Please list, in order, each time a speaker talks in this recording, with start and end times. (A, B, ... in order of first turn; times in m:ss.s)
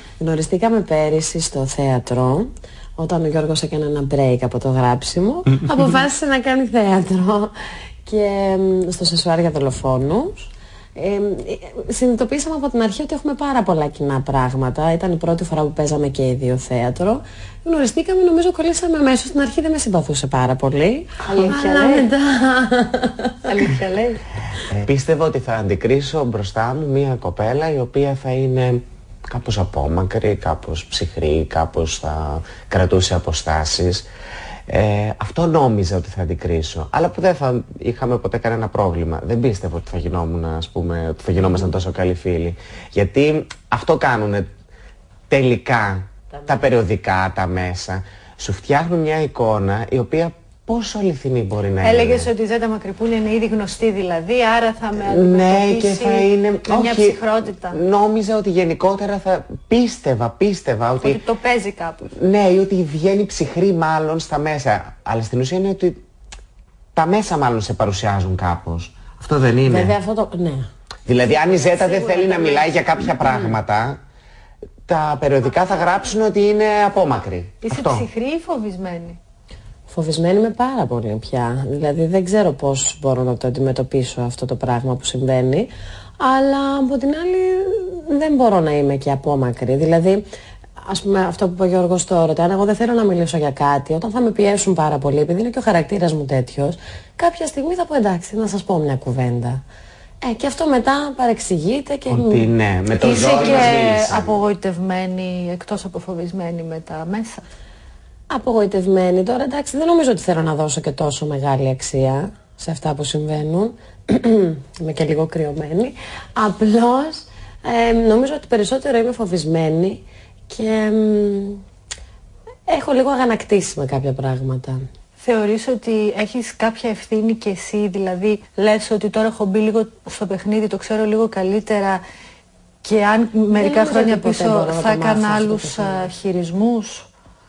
0:00.2-0:07.5 A
0:08.0-0:23.4 A
0:21.2-0:22.1 B
0:23.4-0:24.2 B
0:24.7-0:34.0 C
0:34.7-0:44.5 C
0:45.3-0:52.3 C
0:51.8-0:57.8 B
0:55.0-1:01.2 C
1:01.0-1:02.1 B
1:02.1-1:06.0 C
1:07.0-1:09.9 C
1:09.6-1:10.7 A
1:11.0-1:14.0 C
1:11.2-1:13.1 B
1:13.2-1:13.5 A
1:14.9-1:18.1 C
1:17.6-1:19.2 B
1:19.9-1:30.2 A
1:30.8-1:39.6 A
1:40.2-1:42.5 A
1:42.1-1:44.4 C
1:42.9-1:47.4 B
1:48.3-2:01.6 A
2:02.7-2:04.8 A
2:05.2-2:12.0 B
2:12.8-2:17.1 B
2:13.5-2:16.1 A